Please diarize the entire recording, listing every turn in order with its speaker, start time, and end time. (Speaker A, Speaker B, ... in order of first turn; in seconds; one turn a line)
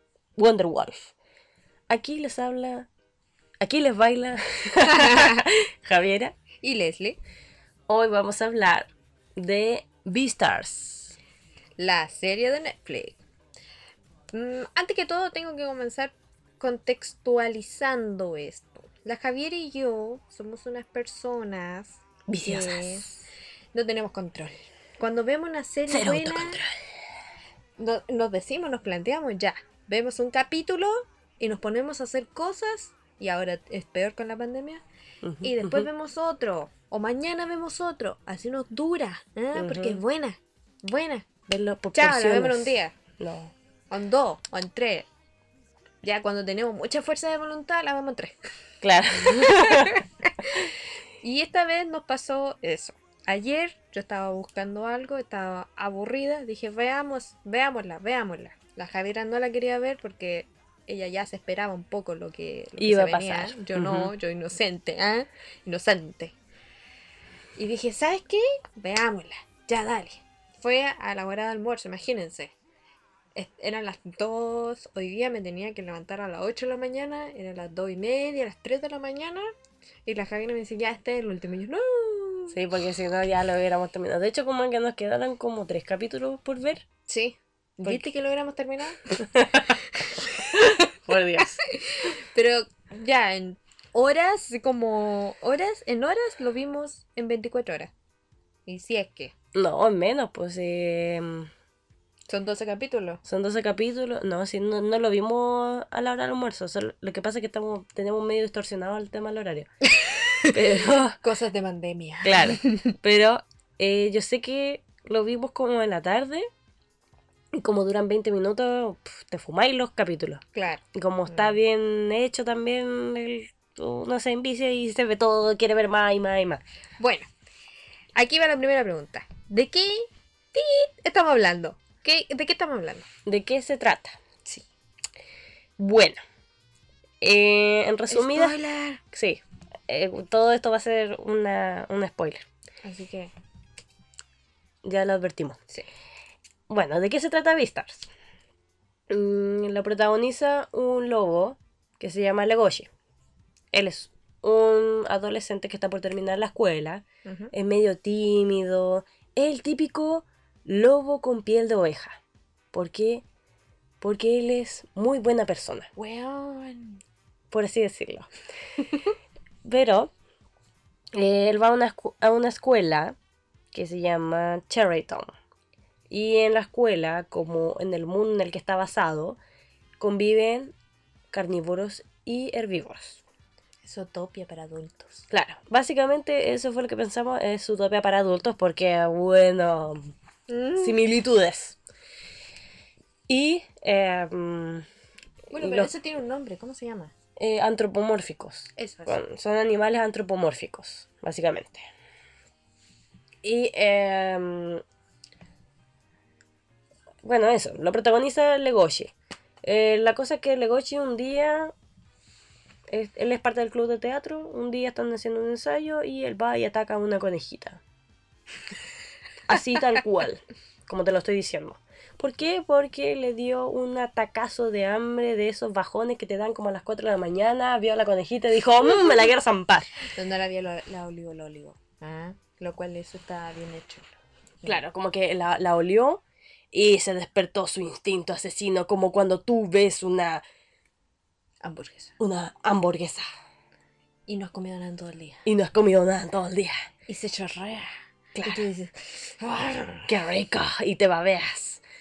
Speaker A: 0.4-1.1
Speaker A: 1.9-2.9
Speaker A: 3.6-6.3
Speaker B: 4.9-5.4
Speaker B: 6.6-7.2
Speaker A: 7.9-11.2
Speaker B: 11.8-13.2
Speaker B: 14.3-26.6
Speaker A: 22.3-23.0
Speaker A: 25.9-26.7
Speaker B: 27.8-34.8
Speaker A: 35.2-35.9
Speaker B: 35.4-41.3
Speaker A: 39.5-40.0
Speaker A: 41.5-43.5
Speaker B: 41.9-43.0
Speaker B: 43.9-45.1
Speaker B: 46.0-48.4
Speaker A: 48.8-50.7
Speaker B: 49.2-50.6
Speaker B: 51.2-66.3
Speaker A: 62.8-64.1
Speaker B: 67.5-72.5
Speaker B: 73.3-79.5
Speaker B: 80.0-82.6
Speaker A: 82.5-86.8
Speaker B: 87.1-97.9
Speaker A: 89.3-89.7
Speaker A: 90.9-91.6
Speaker B: 98.7-99.3
Speaker A: 99.5-101.5
Speaker B: 102.3-103.2
Speaker A: 103.2-109.7
Speaker B: 109.8-110.6
Speaker A: 110.4-111.2
Speaker B: 111.2-112.9
Speaker A: 112.2-116.5
Speaker A: 117.5-120.4
Speaker B: 120.5-121.6
Speaker A: 120.9-126.6
Speaker B: 127.0-127.3
Speaker B: 128.1-133.1
Speaker A: 133.2-134.2
Speaker A: 135.8-136.2
Speaker A: 137.2-138.6
Speaker B: 138.1-139.0
Speaker A: 139.1-142.4
Speaker B: 142.8-143.3
Speaker A: 144.8-145.6
Speaker A: 146.7-148.1
Speaker A: 149.1-152.9
Speaker A: 153.7-162.2
Speaker B: 157.2-157.5
Speaker A: 162.7-163.2
Speaker A: 164.0-165.9
Speaker B: 166.0-167.0
Speaker A: 167.5-168.3
Speaker A: 169.6-170.1
Speaker A: 171.1-173.1
Speaker A: 173.7-175.3
Speaker A: 176.1-179.4
Speaker A: 180.0-180.7
Speaker A: 181.3-183.2
Speaker B: 183.8-185.3
Speaker A: 185.3-190.1
Speaker B: 190.5-190.9
Speaker A: 190.8-191.8
Speaker A: 193.3-194.8
Speaker A: 195.5-195.9
Speaker B: 195.5-197.1
Speaker A: 197.4-201.9
Speaker B: 198.8-199.2
Speaker A: 203.4-204.8
Speaker A: 207.2-211.7
Speaker A: 212.9-217.8
Speaker A: 219.5-229.9
Speaker B: 230.1-234.1
Speaker A: 234.6-240.4
Speaker B: 241.6-242.1
Speaker A: 242.2-243.2
Speaker B: 244.3-245.4
Speaker A: 245.4-246.7
Speaker B: 247.1-247.9
Speaker A: 248.3-248.6
Speaker B: 248.4-250.1
Speaker A: 250.1-251.8